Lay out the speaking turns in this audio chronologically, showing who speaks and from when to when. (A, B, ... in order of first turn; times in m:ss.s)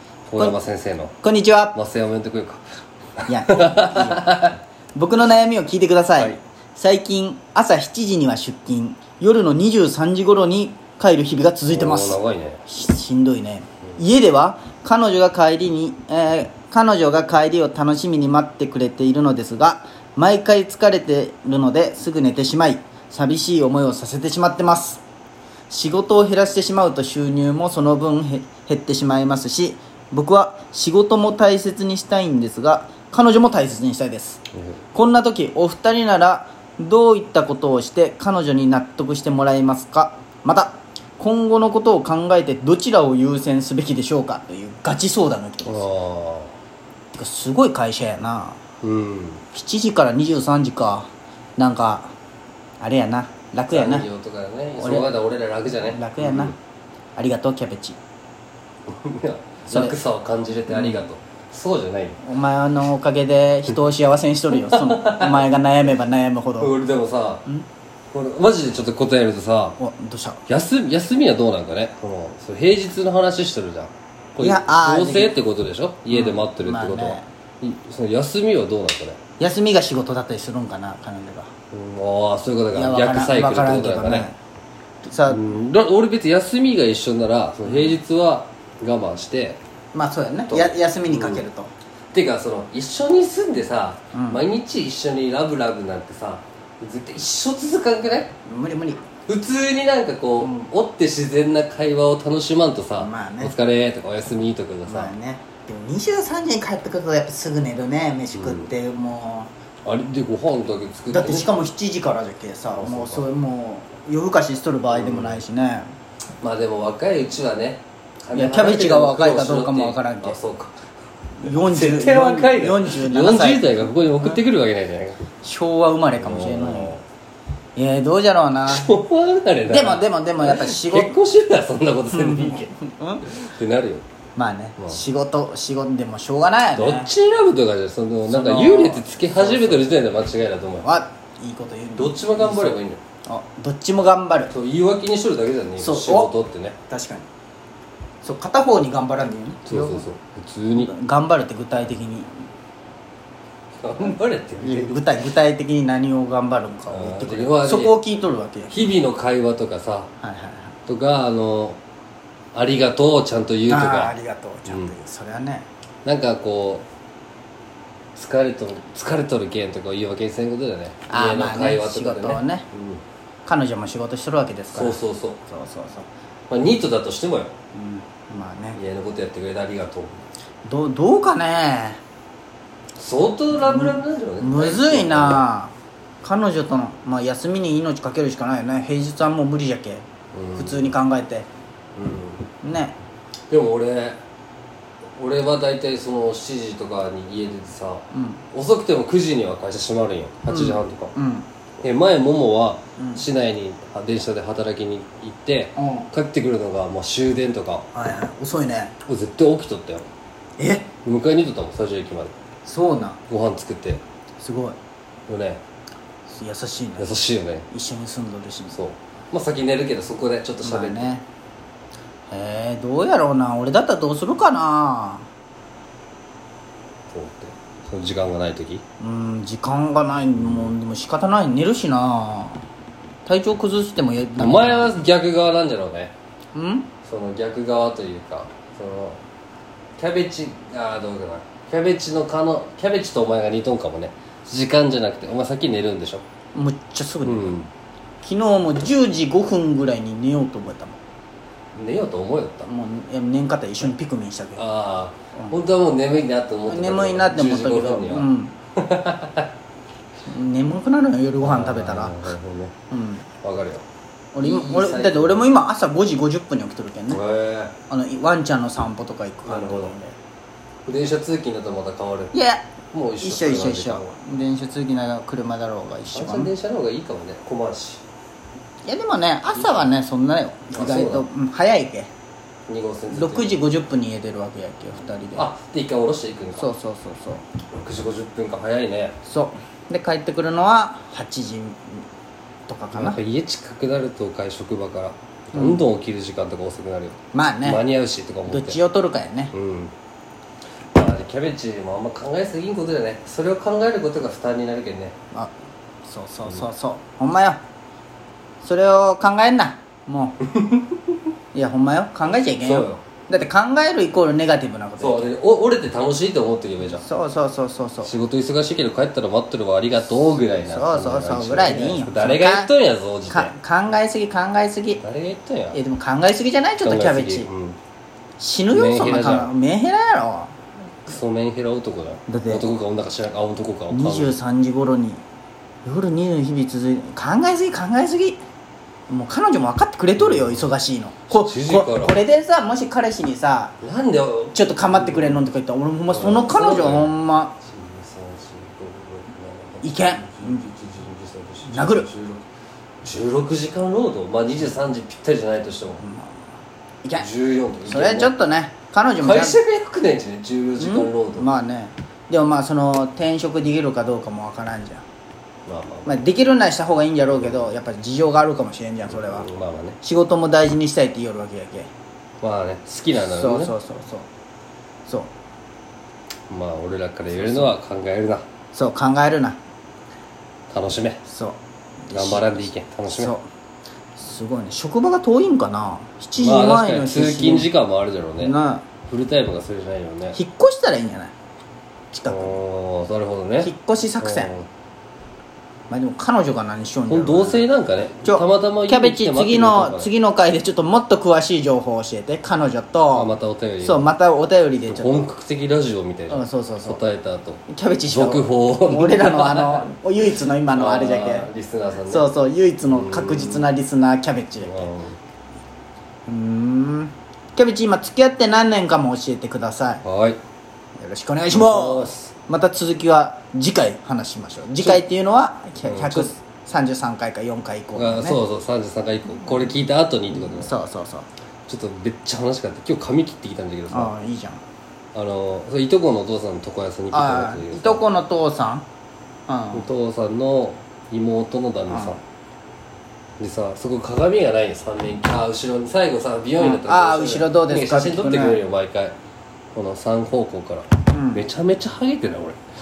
0:00.3-0:01.2 A
0:01.2-0:01.7 B
0:01.7-0:02.6 A
0:03.2-0:04.6 A
0:03.3-0:04.3 B
0:04.9-0:25.0 B
0:11.7-0:12.7 A
0:25.7-0:34.4 B
0:34.6-0:34.8 A
0:34.9-0:45.9 B
0:45.7-0:46.5 A
0:47.1-0:48.6 B
0:48.8-0:49.5 A
0:49.5-0:52.1 B
0:52.8-0:54.1 B
0:53.7-0:56.6 A
0:54.8-0:55.2 B
0:55.8-0:56.6 B
0:57.2-0:58.0 B
0:58.9-1:02.2 A
0:59.7-1:00.0 B
1:00.7-1:01.1 B
1:02.2-1:06.7 B
1:04.5-1:05.5 A
1:06.6-1:07.5 A
1:08.1-1:09.8 A
1:09.8-1:10.4 B
1:10.5-1:19.2 A
1:14.4-1:15.4 B
1:16.1-1:17.3 B
1:19.4-1:21.5 B
1:21.7-1:24.3 A
1:22.7-1:24.4 B
1:25.0-1:25.4 B
1:25.3-1:29.6 A
1:27.6-1:28.0 B
1:29.9-1:31.7 B
1:30.5-1:31.5 A
1:32.1-1:38.4 A
1:34.1-1:34.4 B
1:38.5-1:39.1 B
1:39.2-1:45.1 A
1:40.4-1:40.7 B
1:43.0-1:43.6 B
1:44.8-1:49.5 B
1:48.3-1:48.7 A
1:49.8-1:51.6 A
1:51.1-1:55.9 B
1:52.7-1:53.3 A
1:54.9-1:55.4 A
1:56.4-2:00.7 A
1:58.4-2:00.4 B
2:01.4-2:04.4 B
2:01.4-2:05.3 A
2:05.4-2:06.9 B
2:06.2-2:07.0 A
2:07.8-2:09.0 B
2:08.7-2:14.0 A
2:09.7-2:11.2 B
2:12.1-2:13.2 B
2:14.4-2:17.1 B
2:14.8-2:15.0 A
2:16.8-2:20.9 A
2:18.3-2:19.8 B
2:20.8-2:24.5 B
2:22.0-2:23.0 A
2:24.5-2:26.8 A
2:25.8-2:26.3 B
2:26.9-2:27.3 B
2:28.2-2:30.1 B
2:29.7-2:30.9 A
2:30.8-2:32.4 B
2:33.8-2:35.1 A
2:34.6-2:38.8 B
2:36.9-2:38.0 A
2:38.7-2:40.1 A
2:40.2-2:40.8 B
2:40.8-2:41.8 A
2:42.5-2:45.0 A
2:43.7-2:45.7 B
2:46.0-2:46.9 A
2:48.2-2:53.0 A
2:51.1-2:52.7 B
2:53.4-2:56.1 B
2:54.7-2:55.4 A
2:56.5-2:57.5 A
2:57.7-2:58.8 B
2:58.7-3:00.3 A
3:00.6-3:02.0 B
3:03.0-3:05.4 A
3:03.7-3:11.5 B
3:10.3-3:10.9 A
3:12.0-3:12.5 A
3:12.6-3:13.0 B
3:13.5-3:14.2 A
3:15.2-3:21.2 A
3:18.1-3:18.4 B
3:20.5-3:21.5 B
3:21.8-3:27.9 A
3:23.0-3:23.2 B
3:25.8-3:26.1 B
3:27.9-3:28.9 B
3:29.0-3:30.1 A
3:30.6-3:30.9 B
3:30.9-3:32.4 A
3:32.6-3:33.2 B
3:33.3-3:34.0 A
3:34.4-3:34.8 B
3:35.3-3:35.6 A
3:36.3-3:37.1 B
3:37.0-3:37.7 A
3:37.7-3:38.8 B
3:38.7-3:41.1 A
3:40.6-3:41.3 B
3:42.3-3:45.3 B
3:47.1-3:48.8 A
3:49.0-3:52.7 B
3:50.4-3:50.8 A
3:53.3-3:54.9 B
3:54.4-3:56.1 A
3:56.5-3:56.9 B
3:57.0-3:59.2 A
4:00.0-4:06.2 A
4:06.5-4:07.6 B
4:07.2-4:07.7 A
4:08.2-4:11.0 B
4:11.8-4:12.7 A
4:12.7-4:14.6 B
4:14.6-4:19.5 A
4:16.7-4:18.6 B
4:20.3-4:22.4 B
4:21.4-4:22.8 A
4:22.9-4:23.3 B
4:23.4-4:23.8 A
4:24.3-4:27.2 B
4:24.4-4:25.5 A
4:27.1-4:27.8 A
4:27.9-4:30.2 B
4:29.5-4:30.0 A
4:30.9-4:34.1 A
4:32.3-4:36.5 B
4:36.1-4:38.0 A
4:38.8-4:42.1 B
4:39.5-4:39.9 A
4:40.7-4:41.3 A
4:42.7-4:43.6 A
4:43.1-4:45.5 B
4:45.3-4:46.7 A
4:46.6-4:47.5 B
4:47.7-4:49.2 A
4:49.3-4:52.1 B
4:52.7-4:53.2 B
4:52.9-4:58.8 A
4:55.5-4:55.9 B
4:57.3-4:57.8 B
4:58.5-4:59.5 B
4:59.5-4:59.9 A
5:00.9-5:05.2 A
5:05.3-5:07.6 B
5:06.4-5:06.7 A
5:08.6-5:10.4 B
5:10.4-5:11.0 A
5:11.5-5:15.3 B
5:12.3-5:13.0 A
5:15.0-5:17.1 A
5:16.9-5:18.1 B
5:18.0-5:23.5 A
5:20.6-5:22.7 B
5:23.3-5:25.0 B
5:25.0-5:25.8 A
5:25.7-5:27.5 B
5:26.8-5:27.8 A
5:28.4-5:30.6 B
5:28.7-5:29.5 A
5:31.0-5:34.4 A
5:32.3-5:32.6 B
5:33.9-5:35.2 B
5:35.8-5:38.4 B
5:39.1-5:43.8 B
5:40.2-5:40.7 A
5:41.3-5:42.2 A
5:43.8-5:45.5 A
5:44.5-5:47.6 B
5:46.1-5:52.5 A
5:49.8-5:50.7 B
5:51.7-5:52.1 B
5:53.0-5:56.0 A
5:56.0-5:56.5 B
5:57.0-5:57.3 B
5:57.2-5:58.4 A
5:57.9-5:59.6 B
5:59.2-6:01.5 A
6:00.8-6:05.0 B
6:05.7-6:06.2 A
6:06.0-6:09.5 B
6:07.3-6:07.7 A
6:09.0-6:10.0 A
6:10.0-6:11.9 B
6:12.4-6:13.7 A
6:13.2-6:14.3 B
6:15.0-6:15.3 B
6:16.5-6:18.5 A
6:17.3-6:17.7 B
6:18.7-6:19.6 B
6:20.7-6:21.2 A
6:21.3-6:23.4 B
6:22.1-6:23.3 A
6:24.2-6:27.7 B
6:26.4-6:30.4 A
6:28.4-6:28.9 B
6:30.4-6:31.3 B
6:32.1-6:32.6 B
6:32.3-6:34.7 A
6:33.6-6:34.5 B
6:35.9-6:37.6 B
6:37.1-6:40.1 A
6:38.2-6:43.3 B
6:43.1-6:44.1 A
6:43.8-6:45.3 B
6:44.9-6:49.9 A
6:46.3-6:47.0 B
6:47.7-6:51.5 B
6:50.7-6:52.3 A
6:52.1-6:54.9 B
6:52.9-6:53.7 A
6:54.6-6:55.2 A
6:56.3-7:00.0 B
7:00.0-7:00.4 A
7:01.0-7:08.4 B
7:01.5-7:02.3 A
7:04.8-7:05.1 A
7:05.8-7:06.4 A
7:07.9-7:10.8 A
7:09.3-7:09.7 B
7:10.3-7:11.3 B
7:11.7-7:14.2 A
7:13.9-7:14.6 B
7:15.1-7:18.0 A
7:17.1-7:18.9 B
7:19.5-7:19.9 B
7:19.7-7:22.2 A
7:21.9-7:22.2 B
7:23.4-7:29.2 A
7:26.6-7:28.6 B
7:29.7-7:32.6 A
7:31.1-7:31.4 B